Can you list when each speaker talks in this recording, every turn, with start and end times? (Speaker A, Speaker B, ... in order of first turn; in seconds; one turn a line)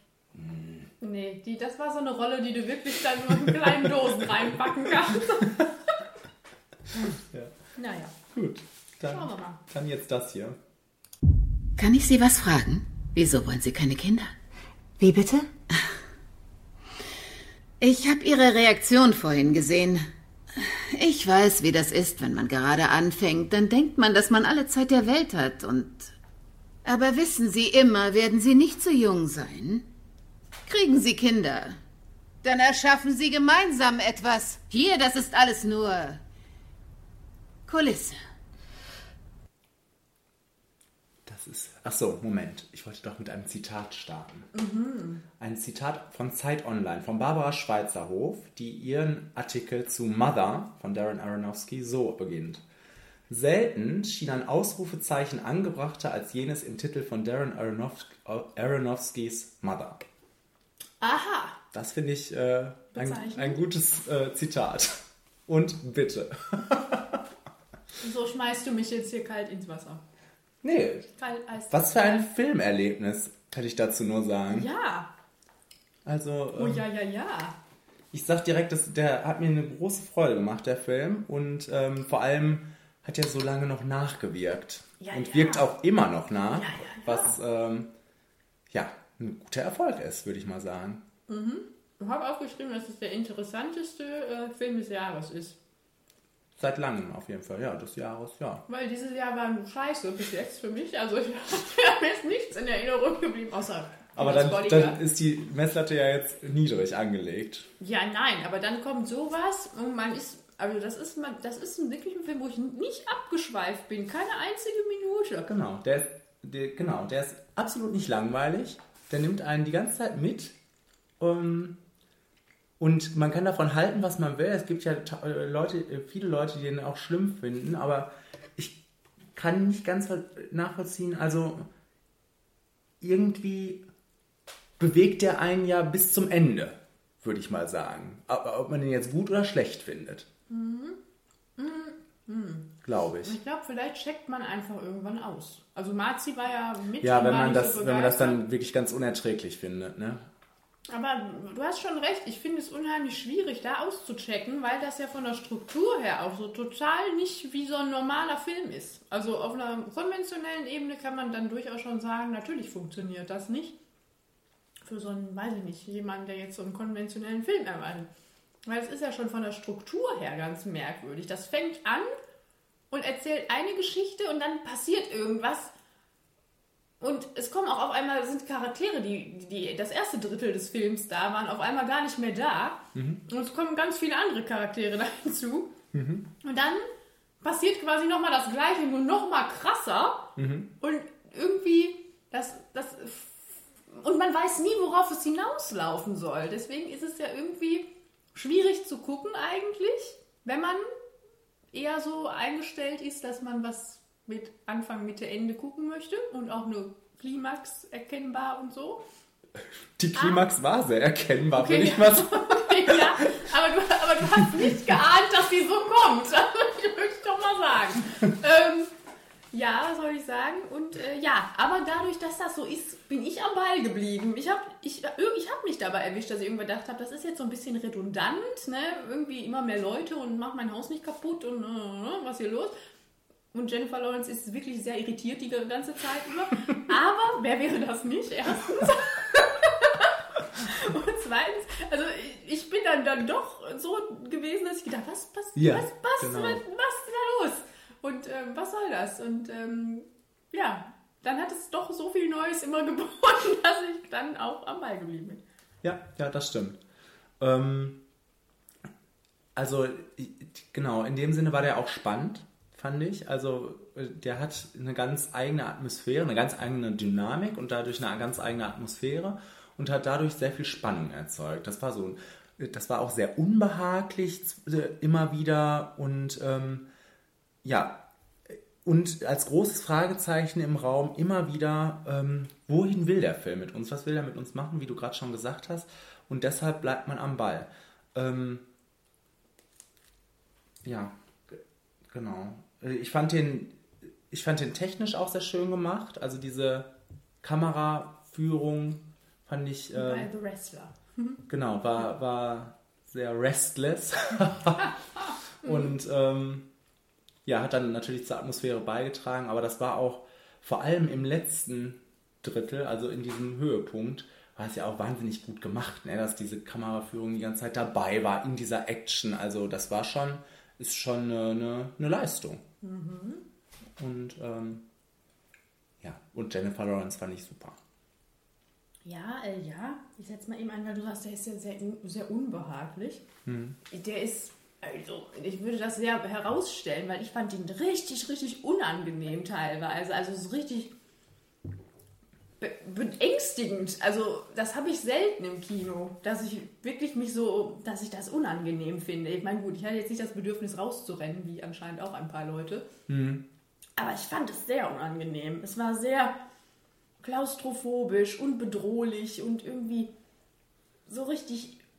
Speaker A: 0.3-0.9
Speaker B: 1.0-5.6
Speaker A: 3.6-3.9
Speaker A: 7.1-7.5
Speaker B: 7.7-8.1
Speaker A: 8.3-10.6
Speaker B: 9.1-9.6
Speaker C: 11.8-14.3
Speaker C: 15.0-15.5
Speaker C: 17.8-26.1
Speaker C: 26.8-29.9
Speaker C: 30.7-31.8
Speaker C: 32.4-36.2
Speaker C: 37.7-38.2
Speaker A: 41.2-44.5
Speaker B: 44.5-45.2
Speaker A: 45.4-52.6
Speaker A: 53.3-60.0
Speaker B: 61.0-61.6
Speaker A: 61.7-67.2
Speaker B: 62.9-63.6
Speaker B: 68.0-70.0
Speaker A: 70.6-71.1
Speaker B: 71.2-72.3
Speaker A: 71.7-74.7
Speaker B: 74.5-75.1
Speaker A: 76.0-76.8
Speaker B: 76.5-77.5
Speaker A: 78.1-87.9
Speaker B: 85.0-85.7
Speaker B: 86.5-87.3
Speaker A: 88.7-91.0
Speaker B: 91.3-95.5
Speaker A: 96.6-98.6
Speaker B: 98.7-105.0
Speaker A: 104.2-107.7
Speaker B: 107.8-115.5
Speaker A: 115.5-120.5
Speaker A: 121.2-121.8
Speaker A: 122.8-128.8
Speaker A: 129.3-131.7
Speaker A: 133.0-133.8
Speaker A: 134.8-140.3
Speaker B: 140.5-141.0
Speaker B: 141.6-142.7
Speaker A: 142.8-143.4
Speaker B: 143.2-148.4
Speaker A: 147.0-150.3
Speaker B: 150.9-163.8
Speaker B: 164.8-168.1
Speaker B: 168.7-172.1
Speaker B: 172.9-175.7
Speaker B: 177.0-185.7
Speaker A: 182.9-183.2
Speaker A: 185.9-186.3
Speaker B: 186.4-186.8
Speaker B: 187.4-190.3
Speaker A: 190.3-190.7
Speaker B: 190.8-200.8
Speaker B: 201.7-209.0
Speaker A: 210.0-213.1
Speaker B: 210.1-210.4
Speaker B: 211.5-218.9
Speaker B: 219.5-232.7
Speaker B: 233.5-255.4
Speaker A: 245.5-246.6
Speaker A: 255.8-256.8
Speaker A: 257.4-258.0
Speaker A: 259.6-276.9
Speaker A: 277.6-288.6
Speaker A: 290.8-293.8
Speaker A: 294.3-296.9
Speaker A: 297.4-300.3
Speaker B: 299.9-301.4
Speaker A: 301.5-304.9
Speaker A: 305.6-306.7
Speaker B: 305.6-305.9
Speaker A: 307.4-322.6
Speaker B: 322.8-323.4
Speaker A: 324.0-324.8
Speaker A: 326.0-327.8
Speaker B: 329.0-333.2
Speaker A: 333.4-333.8
Speaker B: 333.9-340.9
Speaker B: 342.6-352.9
Speaker A: 353.1-353.4
Speaker B: 354.0-356.4
Speaker B: 357.2-360.1
Speaker B: 361.1-361.8